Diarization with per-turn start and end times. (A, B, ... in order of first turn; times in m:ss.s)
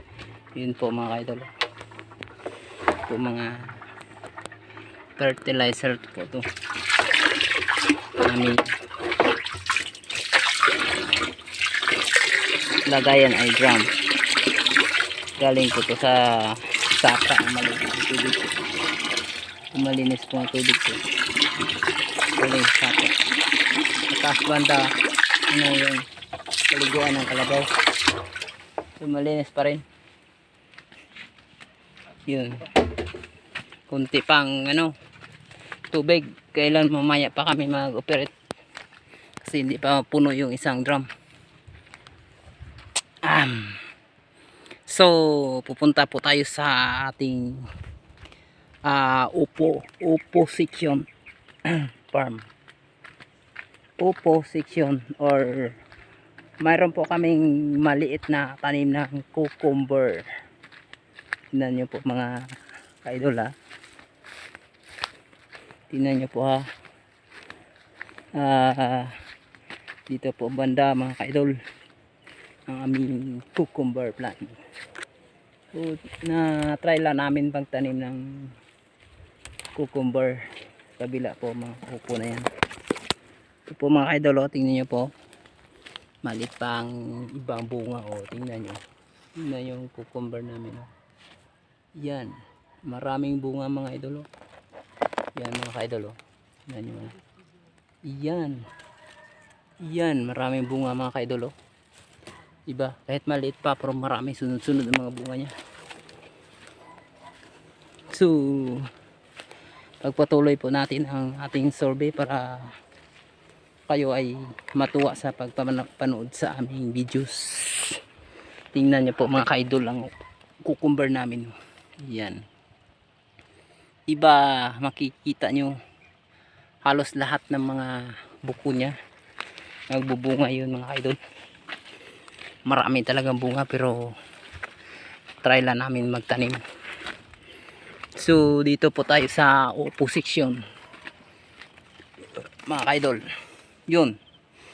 0:00.6-0:01.5 A
0:03.1-0:03.7 A
0:05.2-0:06.5 A
0:08.2-0:08.7 A
0:12.9-0:13.9 A
0:15.4-0:18.5 A
0:19.7-0:21.0 A
0:22.4-0:23.2 A
0:24.1-0:24.9 A
0:25.5-0:26.0 A
0:26.7-0:27.7 A
0:29.0-0:29.8 A
0:32.3-0:32.6 A
0:33.9-0:34.9 A
0:35.9-0:38.3 A
0:39.4-0:41.1 A
0:43.2-0:43.8 A
0:44.9-0:47.6 A
0:48.9-0:51.1 A
0:51.7-0:52.4 A
0:54.0-0:55.8 A
0:56.6-1:00.3 A
1:01.5-1:02.4 A
1:03.0-1:03.5 A
1:05.9-1:06.7 A
1:08.4-1:09.1 A
1:10.1-1:11.5 A
1:12.7-1:14.6 A
1:15.7-1:18.5 A
1:19.8-1:20.4 A
1:21.0-1:22.5 A
1:23.7-1:25.1 A
1:26.2-1:28.8 A
1:29.4-1:30.9 A
1:32.0-1:32.3 A
1:32.9-1:34.3 A
1:35.4-1:37.2 A
1:38.0-1:38.6 A
1:39.8-1:41.5 A
1:42.7-1:45.5 A
1:48.1-1:48.9 A
1:50.0-1:52.7 A
1:53.9-1:58.0 A
1:58.7-2:00.1 A
2:00.6-2:01.5 A
2:02.0-2:02.4 A
2:04.1-2:05.8 A
2:06.8-2:09.0 A
2:09.9-2:11.2 A
2:12.7-2:14.1 A
2:15.4-2:16.6 A
2:18.2-2:20.6 A
2:22.7-2:23.2 A
2:23.9-2:24.2 A